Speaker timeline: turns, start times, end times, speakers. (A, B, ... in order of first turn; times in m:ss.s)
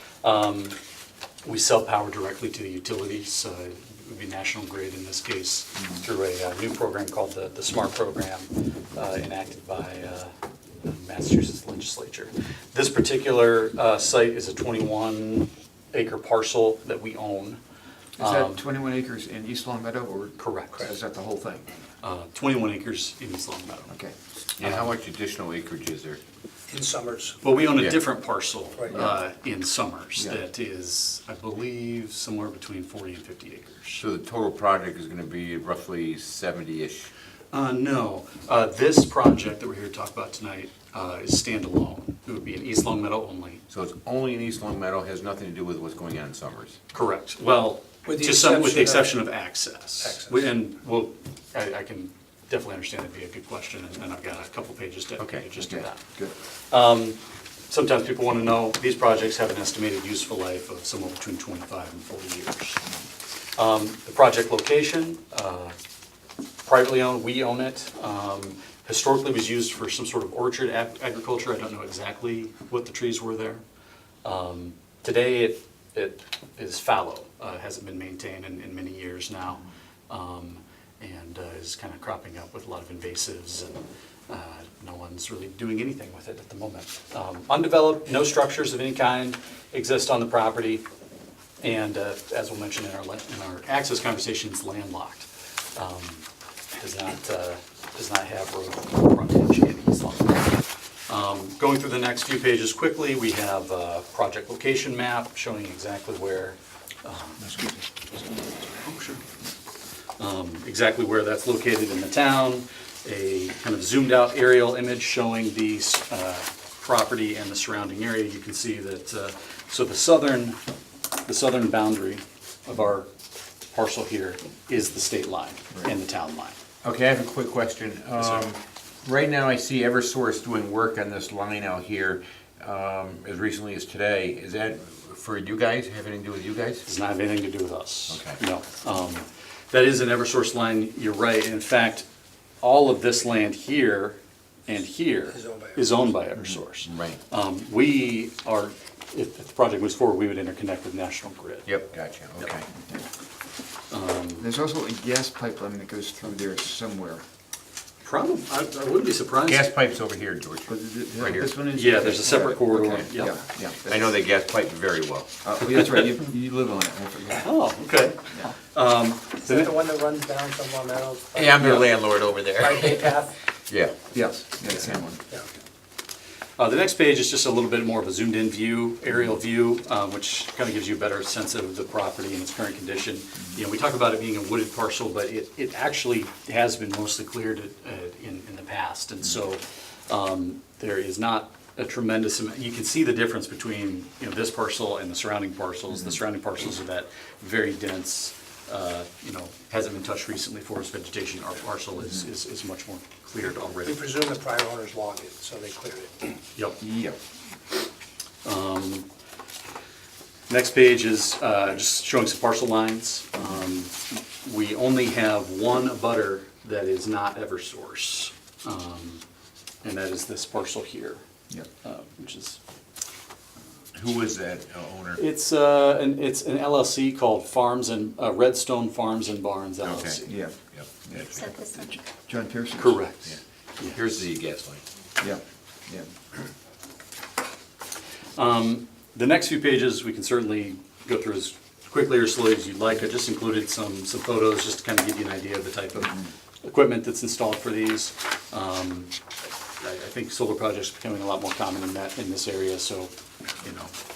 0:00.2-0:00.8 A
0:01.4-0:17.6 A
0:18.2-0:21.7 B
0:18.2-0:18.6 A
0:20.4-0:20.8 A
0:22.0-0:23.9 A
0:23.9-0:24.1 B
0:24.6-0:26.2 C
0:24.6-0:24.9 A
0:26.7-0:27.4 D
0:27.4-0:34.0 A
0:34.0-0:37.1 C
0:37.5-0:43.6 A
0:43.7-0:46.8 C
0:46.9-1:02.8 A
0:48.0-0:49.1 D
0:50.0-0:50.5 D
0:55.2-0:55.5 C
0:55.6-0:56.3 B
1:03.6-1:05.8 A
1:06.6-1:13.6 A
1:14.2-1:30.8 A
1:31.6-1:47.6 A
1:47.4-1:47.8 B
1:48.2-1:49.2 A
1:50.2-2:00.6 A
2:01.2-2:03.1 A
2:03.7-2:06.6 A
2:06.8-2:16.9 C
2:16.8-2:22.0 A
2:18.1-2:18.4 C
2:22.6-2:31.7 A
2:25.3-2:25.9 D
2:26.8-2:27.2 C
2:31.6-2:32.7 C
2:32.7-2:33.0 B
2:33.9-2:34.5 A
2:34.4-2:37.2 B
2:38.0-2:39.7 A
2:39.4-2:41.5 C
2:40.7-2:44.2 B
2:41.7-2:43.4 A
2:43.8-2:45.3 C
2:45.4-2:47.5 B
2:47.4-2:49.7 A
2:49.4-2:51.9 D
2:51.3-2:53.2 C
2:52.6-2:53.3 D
2:53.7-2:54.0 C
2:54.1-2:55.2 B
2:56.6-3:24.1 A
3:23.8-3:26.3 D
3:26.8-3:27.2 B
3:28.4-3:29.0 A
3:30.5-3:39.2 A
3:39.8-3:41.2 A
3:41.8-3:42.6 A
3:43.9-3:45.2 C
3:45.2-3:50.4 A
3:49.8-3:50.2 C
3:50.2-3:50.6 B
3:50.7-3:51.5 C
3:51.1-3:53.0 B
3:52.8-3:54.2 A
3:53.9-3:54.8 C
3:55.2-3:56.1 B
3:58.4-4:09.1 A
4:09.8-4:13.1 A
4:13.6-4:13.9 A